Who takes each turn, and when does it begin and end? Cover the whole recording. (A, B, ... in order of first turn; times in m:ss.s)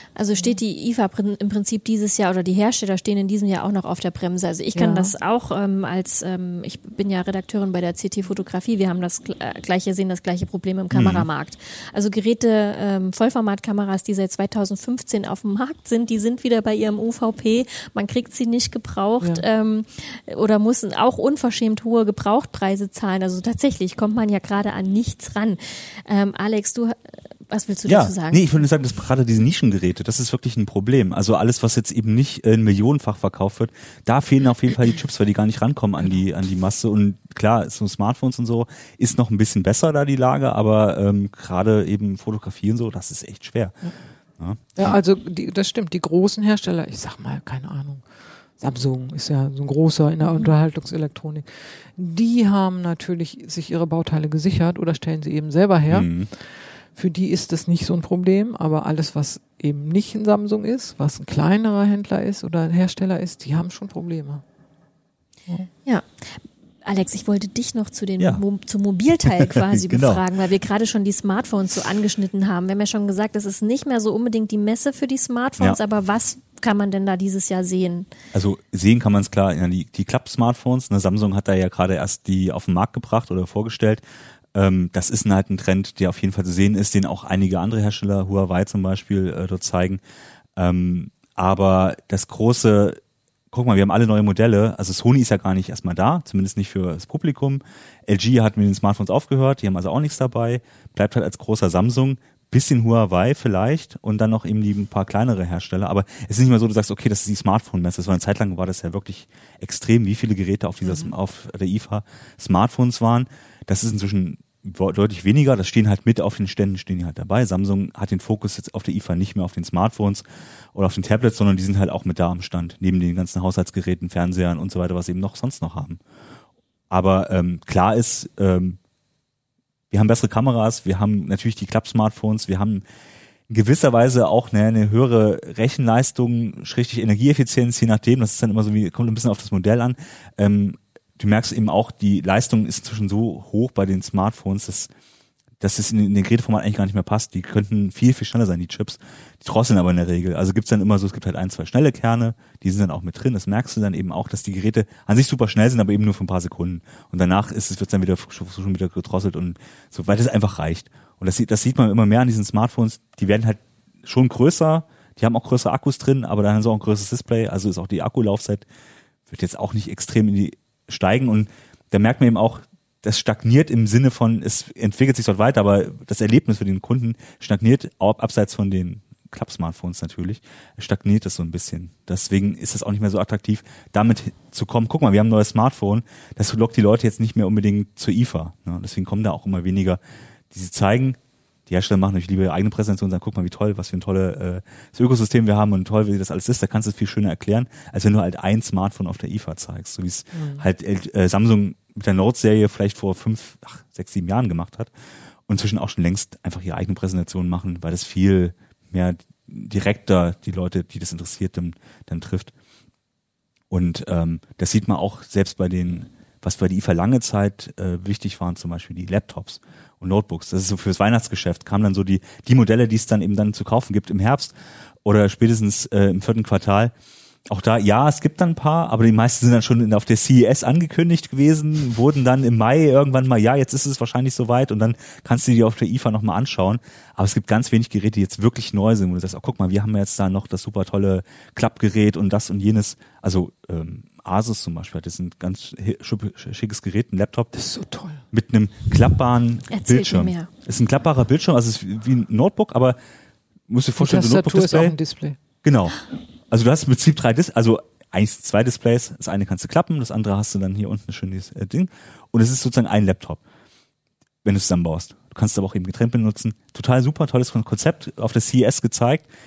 0:00.2-0:28.4 A
0:04.7-0:05.1 B
0:10.9-0:11.2 C
0:27.9-0:43.8 C
0:44.4-0:45.0 C
0:44.8-0:48.0 B
0:48.6-0:56.1 B
0:55.9-0:56.3 C
0:56.9-1:04.4 B
1:05.9-1:18.1 A
1:09.4-1:10.2 C
1:18.3-1:24.0 C
1:24.5-1:30.0 C
1:30.6-1:33.0 C
1:33.5-2:06.0 C
1:50.8-1:51.1 B
2:06.9-2:08.8 C
2:09.9-2:12.8 C
2:13.5-2:24.9 C
2:25.6-2:48.6 C
2:49.3-3:10.0 C
3:10.5-3:24.9 C
3:20.3-3:20.6 B
3:25.5-3:32.5 C
3:33.7-3:44.5 C
3:45.0-3:46.9 C
3:47.5-4:07.5 C
4:07.5-4:08.2 B
4:08.3-4:13.0 C
4:09.7-4:10.5 A
4:13.7-4:15.0 C
4:14.0-4:15.4 B
4:15.6-4:16.0 C
4:16.5-4:23.4 C
4:24.4-4:29.3 C